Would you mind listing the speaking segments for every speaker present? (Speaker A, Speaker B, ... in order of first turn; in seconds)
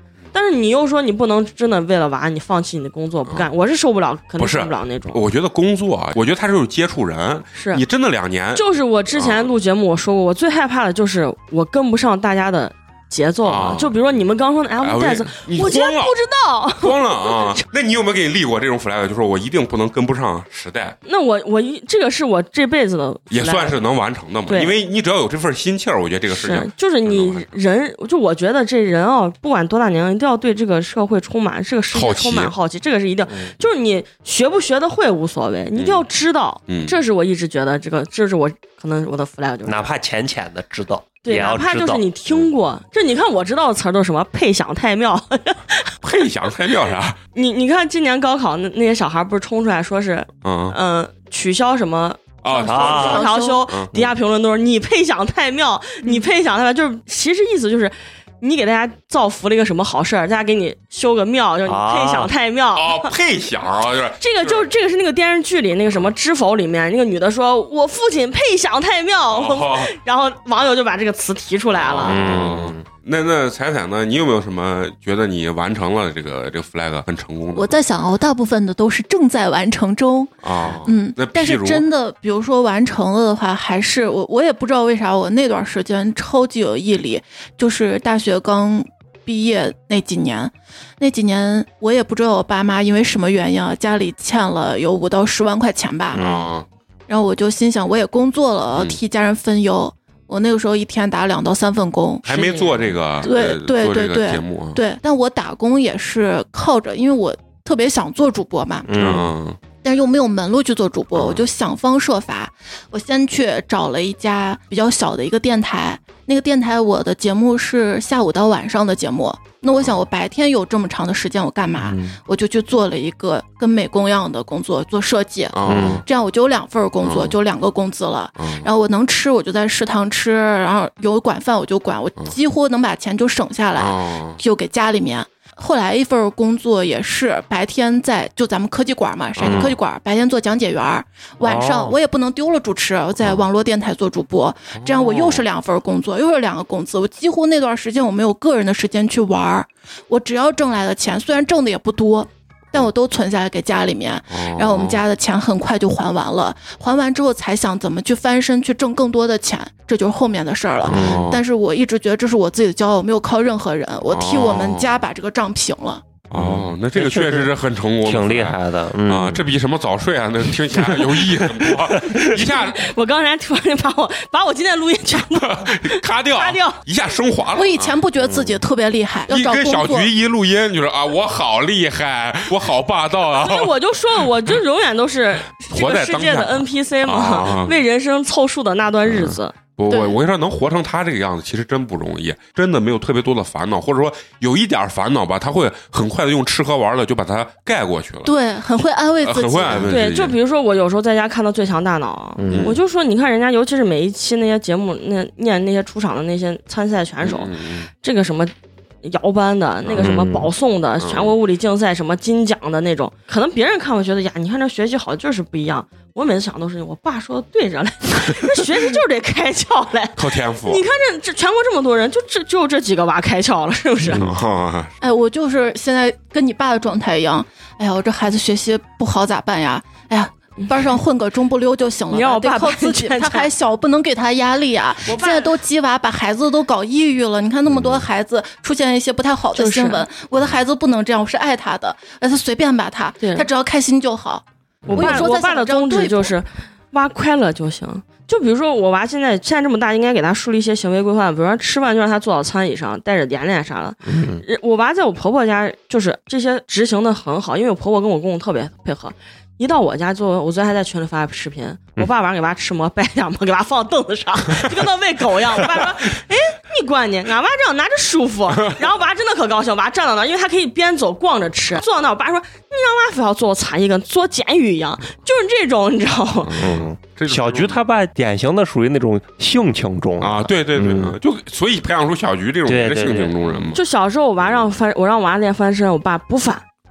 Speaker A: 0.3-5.2, 7.5-7.8, 8.6-17.6, 21.1-23.8, 24.5-24.8, 26.3-39.9, 41.2-46.0, 47.4-63.1, 64.2-72.2, 102.3-102.8, 172.5-176.8, 183.3-189.6, 199.8-208.5, 209.0-224.3, 232.1-233.5, 235.1-235.6, 239.5-240.1, 243.2-243.5, 244.9-276.6, 283.7-286.7
Speaker B: 4.4-9.5, 13.5-14.0, 14.8-16.2, 16.8-21.0, 23.3-27.5, 31.9-32.5, 35.8-36.1, 36.7-37.0, 46.0-47.2, 50.4-50.8, 52.4-53.9, 62.7-64.7, 69.3-69.9, 71.8-77.8, 80.4-81.9, 96.2-96.7, 102.2-104.8, 109.0-109.6, 111.1-111.5, 119.8-120.1, 125.5-126.0, 127.0-127.4, 128.4-128.7, 133.8-134.4, 139.4-139.8, 144.8-145.4, 154.3-155.0, 160.8-161.4, 164.1-165.1, 166.3-172.9, 175.3-178.0, 179.3-183.7, 185.7-187.8, 189.1-198.3, 199.2-200.4, 202.5-202.8, 207.2-207.9, 211.0-211.3, 220.2-220.8, 224.1-225.0, 276.4-277.8, 280.2-283.8
Speaker C: 39.7-42.0, 52.7-53.3, 61.7-62.3, 72.0-72.8, 96.1-96.5, 108.9-109.3, 121.8-122.2, 125.7-126.0, 139.4-139.8, 141.4-142.0, 160.8-161.3, 166.4-167.5, 168.0-169.4, 171.0-172.4, 178.2-178.6, 202.4-202.8, 210.0-210.5, 244.8-245.2, 254.1-254.4, 276.6-281.2, 282.7-283.4
Speaker D: 52.5-53.6, 77.5-96.2, 97.1-102.5, 103.2-109.2, 109.8-166.0, 177.6-180.1, 189.9-190.2, 198.2-199.9, 225.0-246.3